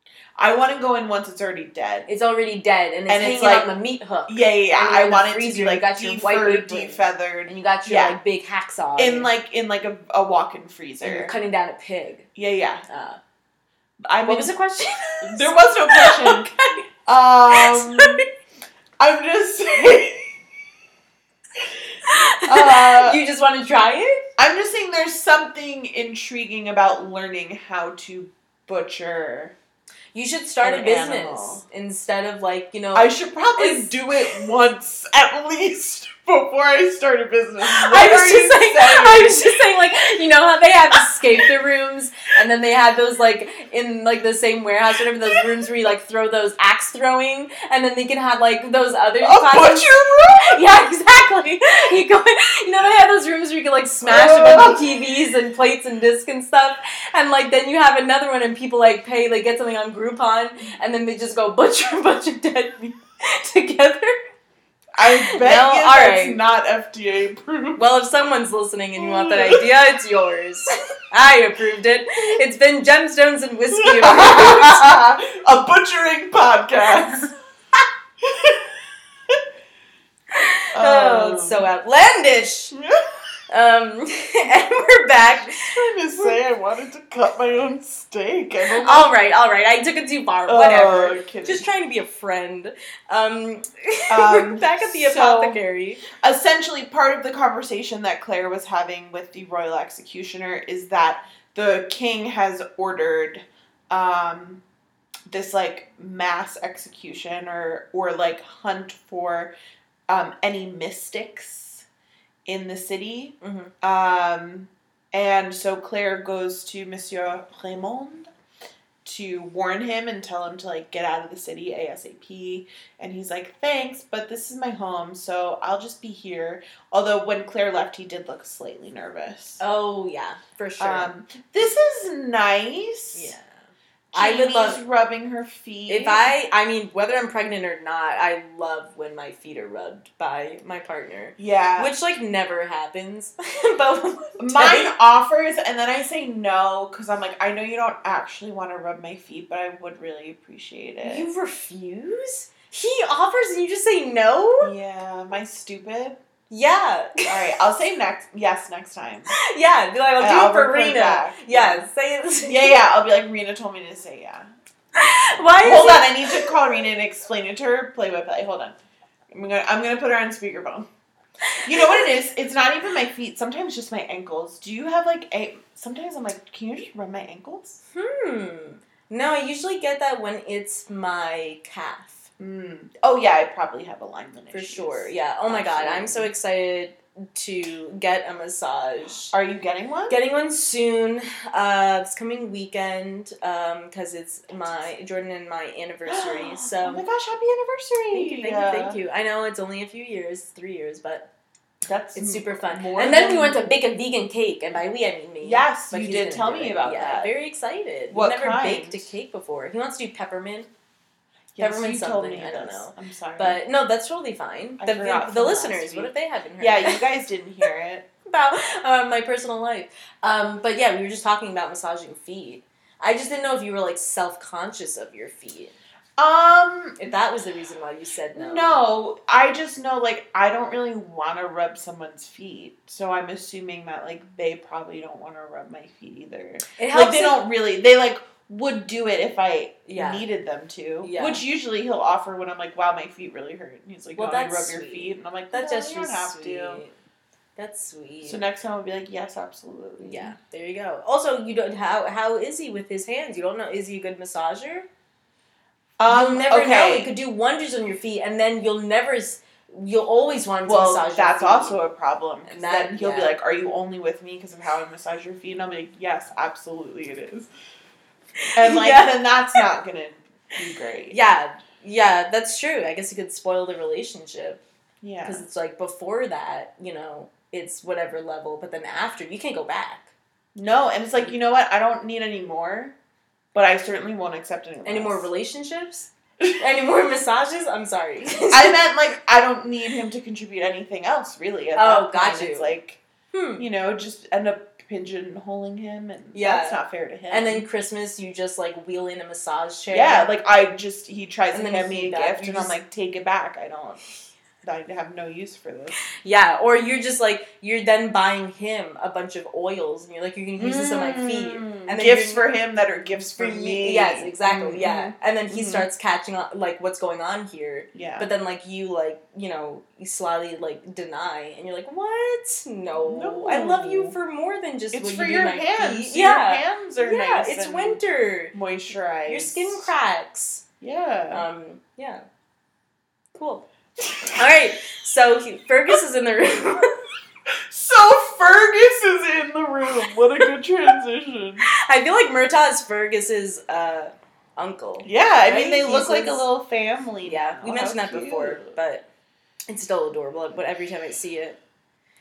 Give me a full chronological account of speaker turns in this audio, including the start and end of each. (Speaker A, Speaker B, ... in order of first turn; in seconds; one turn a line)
Speaker A: 0.4-2.1
Speaker B: 2.1-9.3
Speaker A: 3.1-3.7
Speaker A: 4.3-8.2
Speaker A: 9.0-11.3
Speaker B: 11.0-12.3
Speaker A: 12.3-12.8
Speaker B: 12.9-13.2
Speaker A: 14.0-14.5
Speaker B: 14.2-16.8
Speaker A: 15.2-16.5
Speaker A: 17.1-18.2
Speaker B: 17.5-18.2
Speaker A: 19.0-20.4
Speaker B: 22.0-24.2
Speaker A: 22.4-23.2
Speaker A: 24.4-29.6
Speaker B: 30.1-34.4
Speaker A: 30.6-31.6
Speaker A: 32.9-39.6
Speaker B: 37.6-64.1
Speaker A: 41.0-41.4
Speaker A: 49.2-50.6
Speaker A: 54.1-55.0
Speaker A: 64.9-67.8
Speaker B: 65.0-66.4
Speaker B: 67.8-75.0
Speaker A: 69.0-69.6
Speaker A: 73.7-77.3
Speaker A: 78.2-78.8
Speaker B: 80.3-82.7
Speaker A: 80.7-81.7
Speaker B: 83.5-85.5
Speaker A: 85.2-89.1
Speaker B: 88.7-96.0
Speaker A: 90.5-91.7
Speaker A: 94.1-95.6
Speaker A: 96.2-104.6
Speaker A: 105.3-109.5
Speaker A: 110.1-111.8
Speaker A: 112.5-118.3
Speaker B: 113.4-113.7
Speaker A: 119.0-129.6
Speaker B: 129.6-131.1
Speaker A: 130.8-133.3
Speaker B: 133.1-134.8
Speaker A: 134.1-136.3
Speaker B: 135.9-144.9
Speaker A: 141.4-141.9
Speaker A: 144.4-151.3
Speaker B: 151.0-154.7
Speaker A: 154.6-156.2
Speaker B: 156.5-157.3
Speaker A: 157.2-159.3
Speaker B: 159.3-162.7
Speaker A: 160.2-161.8
Speaker A: 162.4-164.5
Speaker B: 164.9-166.5
Speaker A: 165.6-168.8
Speaker A: 169.3-170.9
Speaker B: 171.4-172.0
Speaker A: 171.6-177.8
Speaker B: 177.9-182.3
Speaker A: 182.4-186.3
Speaker B: 184.5-189.3
Speaker A: 189.3-190.2
Speaker B: 190.1-197.0
Speaker A: 196.1-199.0
Speaker B: 198.1-201.3
Speaker A: 201.8-203.7
Speaker B: 202.1-210.7
Speaker A: 205.4-207.3
Speaker A: 208.1-209.1
Speaker A: 211.5-213.6
Speaker B: 211.6-217.0
Speaker A: 214.8-218.1
Speaker B: 218.2-225.8
Speaker A: 226.2-227.0
Speaker B: 227.0-228.8
Speaker A: 228.3-246.8
Speaker B: 236.7-237.4
Speaker B: 239.9-240.2
Speaker B: 241.0-241.4
Speaker B: 244.1-246.9
Speaker B: 247.6-248.4
Speaker A: 248.2-250.3
Speaker B: 250.0-254.9
Speaker A: 256.0-257.1
Speaker B: 256.1-261.8
Speaker A: 260.6-267.5
Speaker B: 262.4-263.3
Speaker B: 268.4-269.6
Speaker A: 268.5-271.2
Speaker B: 271.1-274.6
Speaker A: 275.0-275.4
Speaker B: 275.2-280.1
Speaker A: 280.5-282.9
Speaker A: 283.5-285.3
Speaker B: 284.8-288.8
Speaker A: 288.5-293.0
Speaker B: 291.8-292.8
Speaker B: 293.3-293.6
Speaker A: 293.6-297.6
Speaker B: 296.3-296.8
Speaker B: 297.3-300.3
Speaker A: 299.9-304.0
Speaker B: 301.5-302.7
Speaker A: 304.6-306.0
Speaker B: 306.2-312.4
Speaker A: 310.6-315.9
Speaker B: 313.4-328.5
Speaker A: 317.9-318.3
Speaker A: 323.0-324.1
Speaker A: 324.9-328.0
Speaker A: 328.5-329.9
Speaker B: 329.2-330.6
Speaker A: 330.8-331.4
Speaker B: 331.3-332.2
Speaker B: 333.3-333.7
Speaker A: 334.0-334.5
Speaker B: 334.2-336.9
Speaker A: 337.7-341.6
Speaker B: 341.8-346.4
Speaker A: 345.0-348.8
Speaker B: 347.2-349.1
Speaker B: 349.7-351.6